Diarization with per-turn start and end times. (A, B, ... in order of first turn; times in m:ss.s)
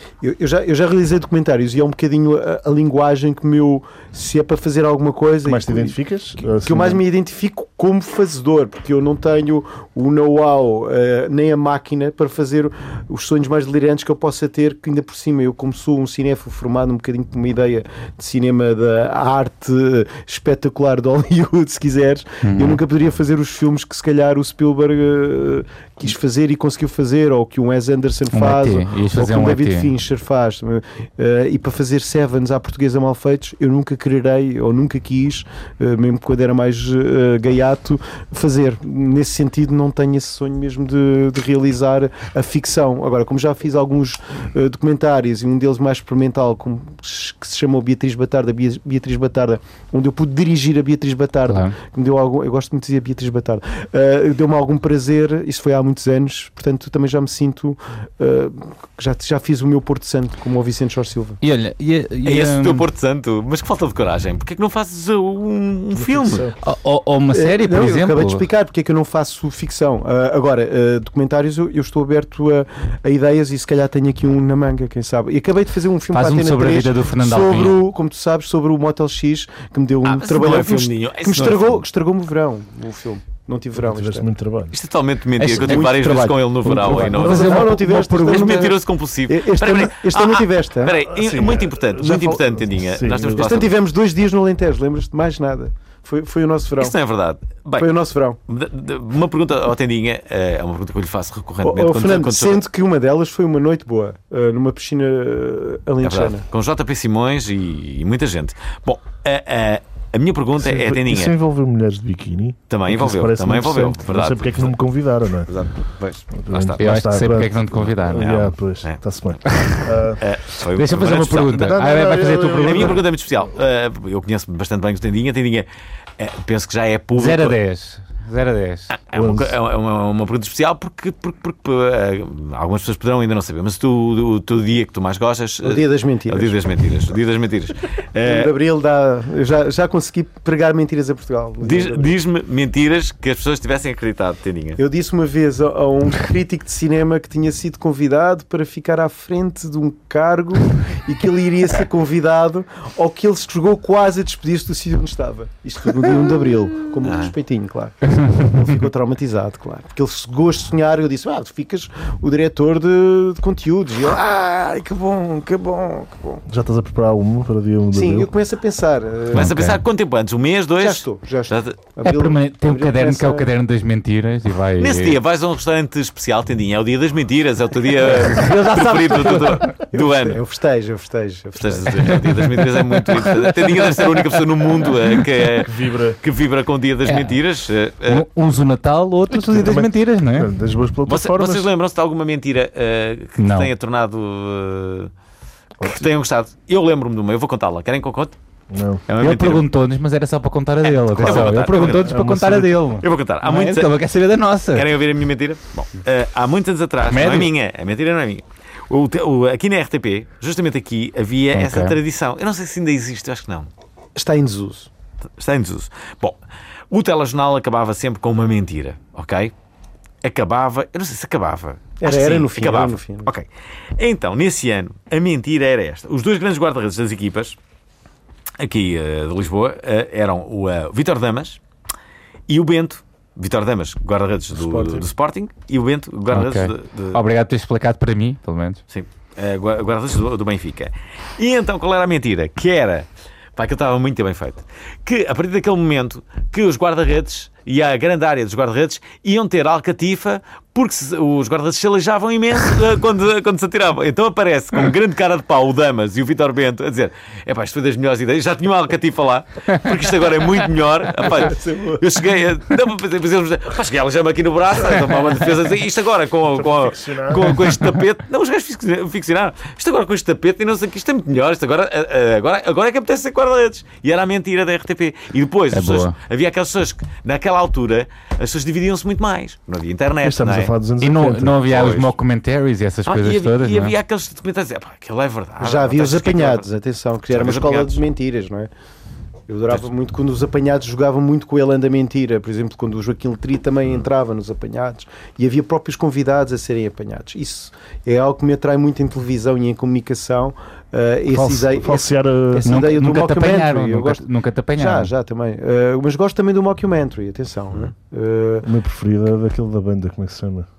0:00.2-1:01.4 A
0:05.4-0:07.0 B
0:22.4-0:22.8 C
0:28.3-0:29.9 C
0:51.5-0:51.8 C
1:01.4-1:02.9 C
1:02.2-1:06.5 D
1:05.9-1:06.6 B
1:06.6-1:08.4 C
1:07.3-1:24.3 A
1:16.1-1:17.8 C
1:20.0-1:21.8 D
1:23.8-1:24.8 B
1:24.7-1:33.8 D
1:25.4-1:28.8 C
1:25.6-1:31.0 A
1:26.9-1:27.3 B
1:31.0-1:33.6 B
1:33.4-1:36.9 A
1:36.8-1:37.9 D
1:37.8-1:38.4 A
1:38.5-1:42.6 D
1:41.6-1:46.4 A
1:46.0-1:51.3 D
1:50.6-1:55.5 B
1:52.7-1:54.8 D
1:55.5-1:56.9 D
1:56.3-2:00.2 B
1:56.8-1:58.4 C
1:58.2-1:59.0 D
1:59.5-1:59.8 C
2:00.2-2:01.8 D
2:00.8-2:03.0 C
2:01.4-2:03.1 B
2:02.6-2:05.7 D
2:06.2-2:07.6 D
2:07.2-2:08.9 C
2:08.9-2:18.5 D
2:09.1-2:09.6 B
2:15.6-2:16.6 A
2:18.2-2:22.1 A
2:21.6-2:24.8 D
2:24.8-2:46.4 A
2:37.0-2:37.3 D
2:46.5-2:48.3 B
2:47.9-2:49.5 A
2:49.3-2:49.8 C
2:49.3-2:51.8 D
2:50.8-2:53.5 A
2:52.0-2:55.2 C
2:54.8-3:00.4 D
2:58.1-2:59.8 C
2:59.6-3:02.2 A
3:01.6-3:08.3 D
3:02.1-3:04.4 C
3:05.6-3:06.2 B
3:07.1-3:07.4 C
3:08.1-3:10.5 C
3:09.3-3:11.7 B
3:11.1-3:15.1 D
3:13.4-3:13.7 C
3:15.8-3:16.1 B
3:15.8-3:18.4 D
3:18.7-3:19.0 B
3:19.1-3:19.7 D
3:19.2-3:24.9 C
3:20.8-3:22.2 D
3:21.2-3:23.0 B
3:23.0-3:24.0 D
3:24.7-3:33.7 D
3:27.1-3:27.5 C
3:31.5-3:32.0 C
3:34.2-3:34.9 A
3:35.4-3:36.4 D
3:36.9-3:39.5 D
3:40.2-3:43.5 D
3:42.0-3:43.3 A
3:44.0-3:47.6 D
3:48.6-3:51.6 D
3:52.5-3:57.2 D
3:54.6-3:55.1 A
3:56.3-3:58.8 C
3:58.9-4:40.7 D
4:21.4-4:22.0 A
4:26.5-4:27.8 B
4:35.7-4:36.1 C
4:40.2-4:41.9 B
4:41.0-4:43.9 C
4:41.7-4:42.1 D
4:43.1-4:46.7 D
4:45.6-4:48.7 A
4:47.3-4:48.0 D
4:49.5-5:08.7 A
5:01.3-5:02.8 B
5:02.6-5:05.1 C
5:08.6-5:10.7 B